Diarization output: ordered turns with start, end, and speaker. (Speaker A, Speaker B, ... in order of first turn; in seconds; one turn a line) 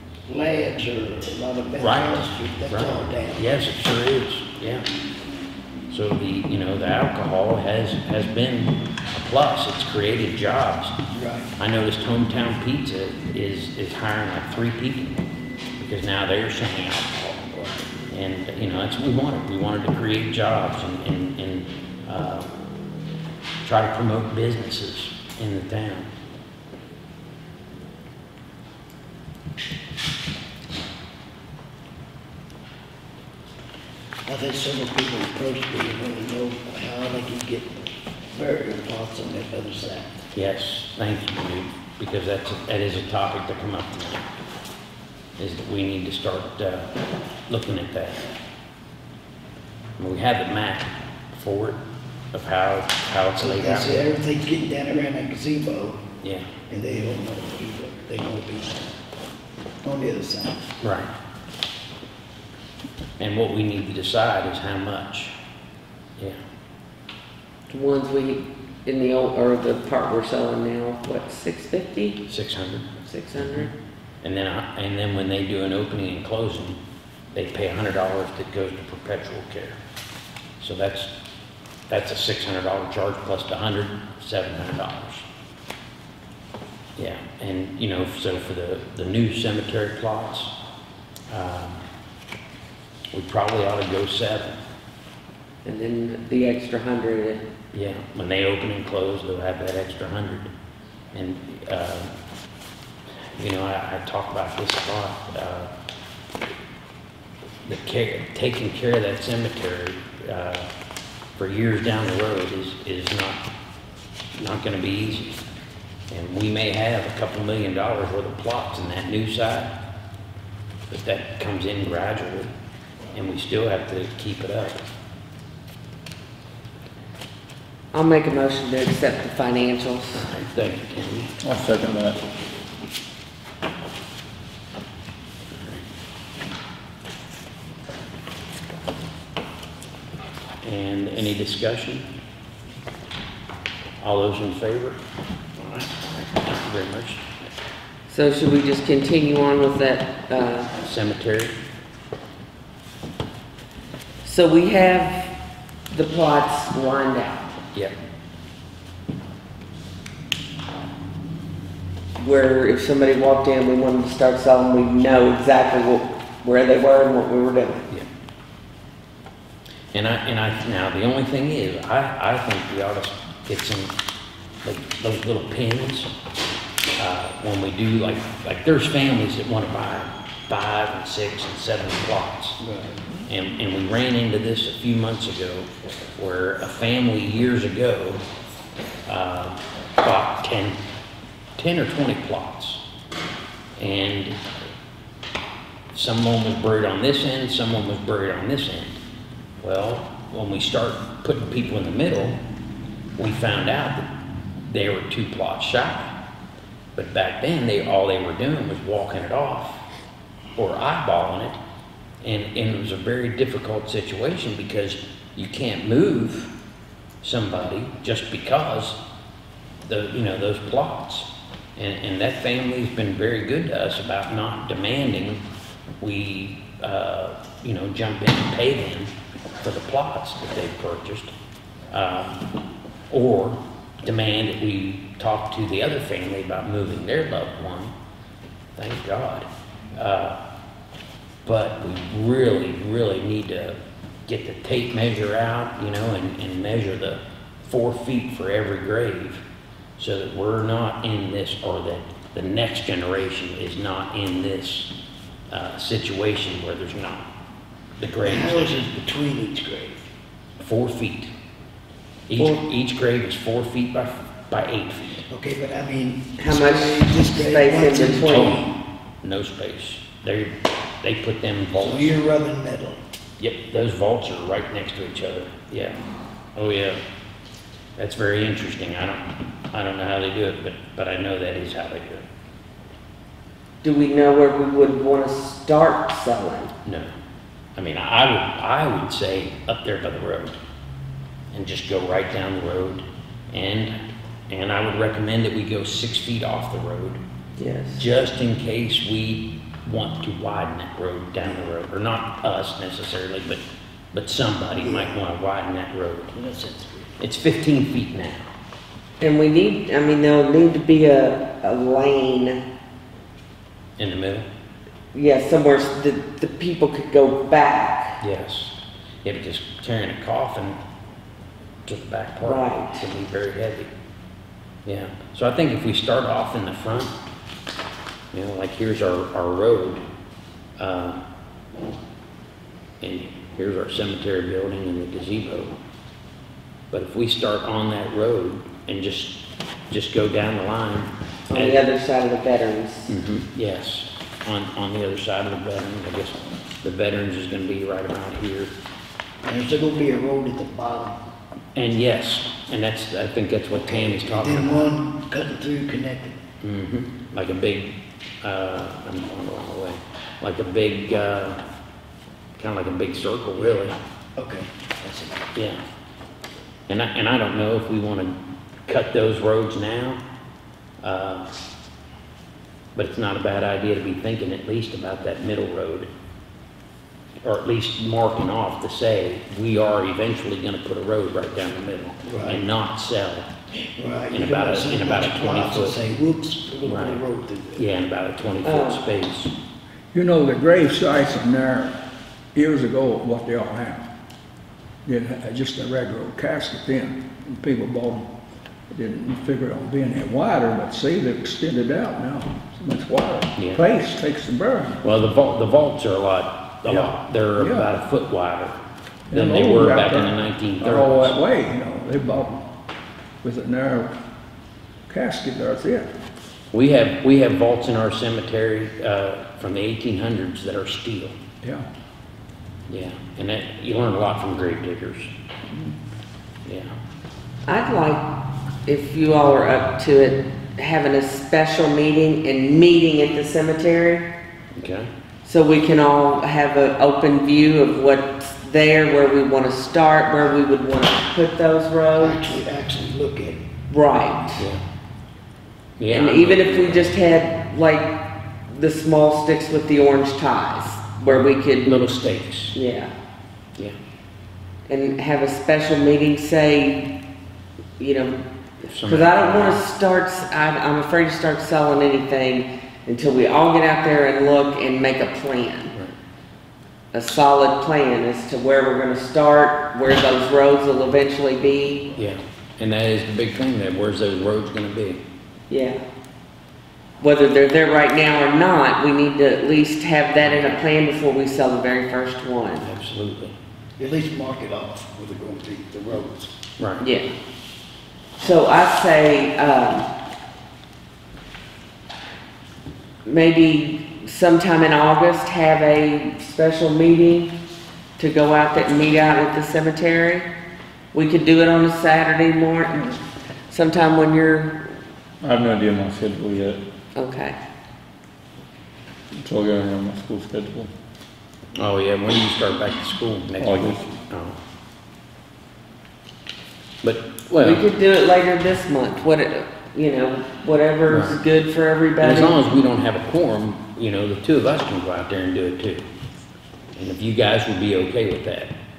Speaker A: 0.3-3.5
Speaker B: 1.8-4.9
Speaker B: 5.9-10.9
Speaker A: 11.1-11.5
Speaker B: 11.6-15.1
Speaker B: 15.8-22.5
Speaker B: 23.6-26.1
Speaker A: 34.3-40.2
Speaker B: 40.3-44.3
Speaker B: 45.4-46.9
Speaker B: 47.5-48.3
Speaker B: 50.0-51.8
Speaker B: 52.3-54.0
Speaker A: 53.4-56.0
Speaker B: 56.2-56.5
Speaker A: 56.7-58.9
Speaker A: 59.8-60.7
Speaker B: 60.8-61.1
Speaker B: 63.2-65.3
Speaker C: 67.7-72.2
Speaker B: 72.3-73.7
Speaker C: 73.0-73.7
Speaker B: 74.2-76.8
Speaker B: 77.3-79.8
Speaker B: 80.6-81.1
Speaker B: 81.9-85.2
Speaker B: 87.0-90.5
Speaker B: 91.3-91.8
Speaker B: 93.1-94.6
Speaker C: 95.7-97.5
Speaker B: 97.7-100.5
Speaker B: 101.1-102.2
Speaker B: 103.2-105.7
Speaker B: 107.7-110.7
Speaker B: 111.4-113.4
Speaker B: 114.4-115.3
Speaker B: 116.1-119.8
Speaker B: 120.9-122.5
Speaker B: 123.1-124.8
Speaker C: 127.9-130.3
Speaker B: 130.2-131.3
Speaker D: 131.4-132.2
Speaker B: 135.6-135.8
Speaker B: 140.6-142.1
Speaker B: 144.0-145.0
Speaker B: 145.6-147.3
Speaker C: 148.1-150.7
Speaker B: 150.8-151.6
Speaker C: 154.2-155.3
Speaker C: 155.9-157.5
Speaker C: 162.2-167.9
Speaker B: 169.9-173.9
Speaker B: 174.6-176.1
Speaker B: 177.0-182.6
Speaker A: 182.6-183.0
Speaker B: 183.3-188.2
Speaker B: 189.1-190.8
Speaker B: 191.6-192.8
Speaker B: 193.8-194.4
Speaker B: 195.9-199.0
Speaker B: 199.6-202.4
Speaker B: 203.2-204.1
Speaker B: 204.7-206.1
Speaker B: 206.9-209.8
Speaker B: 210.6-211.6
Speaker B: 212.2-216.5
Speaker B: 217.2-219.0
Speaker B: 219.8-225.4
Speaker B: 226.0-231.3
Speaker B: 231.9-232.5
Speaker B: 233.1-237.9
Speaker B: 238.8-240.4
Speaker B: 241.4-249.4
Speaker B: 250.0-254.9
Speaker B: 255.5-257.3
Speaker B: 258.0-258.8
Speaker A: 258.2-260.1
Speaker B: 260.6-261.3
Speaker B: 262.3-265.2
Speaker A: 262.4-262.6
Speaker A: 265.3-268.7
Speaker C: 266.4-268.6
Speaker B: 268.3-268.7
Speaker B: 269.2-272.2
Speaker A: 271.7-273.0
Speaker B: 273.4-276.0
Speaker B: 276.5-277.0
Speaker B: 278.0-282.2
Speaker C: 283.8-286.7
Speaker B: 286.9-287.1
Speaker B: 287.8-290.6
Speaker B: 291.5-294.0
Speaker B: 294.5-297.2
Speaker C: 297.6-298.1
Speaker B: 298.0-306.3
Speaker A: 301.4-301.7
Speaker A: 304.7-305.2
Speaker A: 306.3-307.1
Speaker B: 307.2-308.5
Speaker C: 309.2-312.6
Speaker B: 314.0-314.5
Speaker C: 315.1-318.2
Speaker B: 318.2-320.8
Speaker B: 321.9-323.9
Speaker C: 322.4-323.0
Speaker B: 324.9-327.1
Speaker B: 328.3-330.0
Speaker B: 330.8-331.2
Speaker B: 333.0-335.8
Speaker B: 336.9-341.8
Speaker C: 341.5-343.2
Speaker B: 343.1-348.7
Speaker A: 349.4-351.2
Speaker B: 351.8-354.9
Speaker A: 353.7-356.4
Speaker B: 356.6-361.6
Speaker B: 362.6-364.0
Speaker A: 364.4-365.4
Speaker B: 365.6-365.8
Speaker B: 366.9-370.2
Speaker B: 371.0-371.5
Speaker B: 372.9-376.1
Speaker B: 377.4-383.5
Speaker A: 382.2-382.7
Speaker A: 383.9-387.9
Speaker B: 384.3-386.0
Speaker B: 386.8-387.2
Speaker B: 387.8-389.5
Speaker C: 388.6-389.0
Speaker E: 390.1-392.0
Speaker E: 392.6-394.1
Speaker E: 395.1-398.3
Speaker E: 398.9-405.0
Speaker B: 403.6-403.8
Speaker B: 405.0-408.8
Speaker E: 406.9-407.9
Speaker E: 409.3-412.7
Speaker B: 409.3-411.4
Speaker E: 413.4-414.2
Speaker E: 415.1-416.1
Speaker B: 416.7-421.4
Speaker B: 422.9-425.3
Speaker B: 426.7-427.0
Speaker C: 427.7-428.3
Speaker C: 428.9-434.3
Speaker B: 434.8-435.1
Speaker C: 435.4-442.6
Speaker A: 442.2-443.7
Speaker C: 443.9-444.6
Speaker B: 444.6-444.8
Speaker B: 446.0-447.1
Speaker C: 446.1-452.0
Speaker B: 451.3-452.8
Speaker C: 452.7-453.1
Speaker C: 454.9-457.1
Speaker C: 458.0-458.4
Speaker B: 458.8-459.8
Speaker C: 459.1-465.9
Speaker C: 467.1-472.1
Speaker B: 472.2-475.2
Speaker C: 475.7-476.0
Speaker C: 477.2-482.9
Speaker B: 482.8-483.6
Speaker A: 484.0-486.5
Speaker B: 486.8-487.1
Speaker C: 487.0-487.3
Speaker C: 488.4-490.1
Speaker C: 493.2-497.5
Speaker C: 498.2-500.5
Speaker C: 501.1-503.2
Speaker C: 503.7-504.9
Speaker D: 505.4-506.8
Speaker C: 507.1-507.6
Speaker D: 509.3-510.9
Speaker B: 511.8-514.6
Speaker D: 513.6-514.1
Speaker B: 517.0-517.8
Speaker C: 517.6-522.6
Speaker B: 521.1-521.4
Speaker B: 522.2-526.1
Speaker B: 527.0-528.7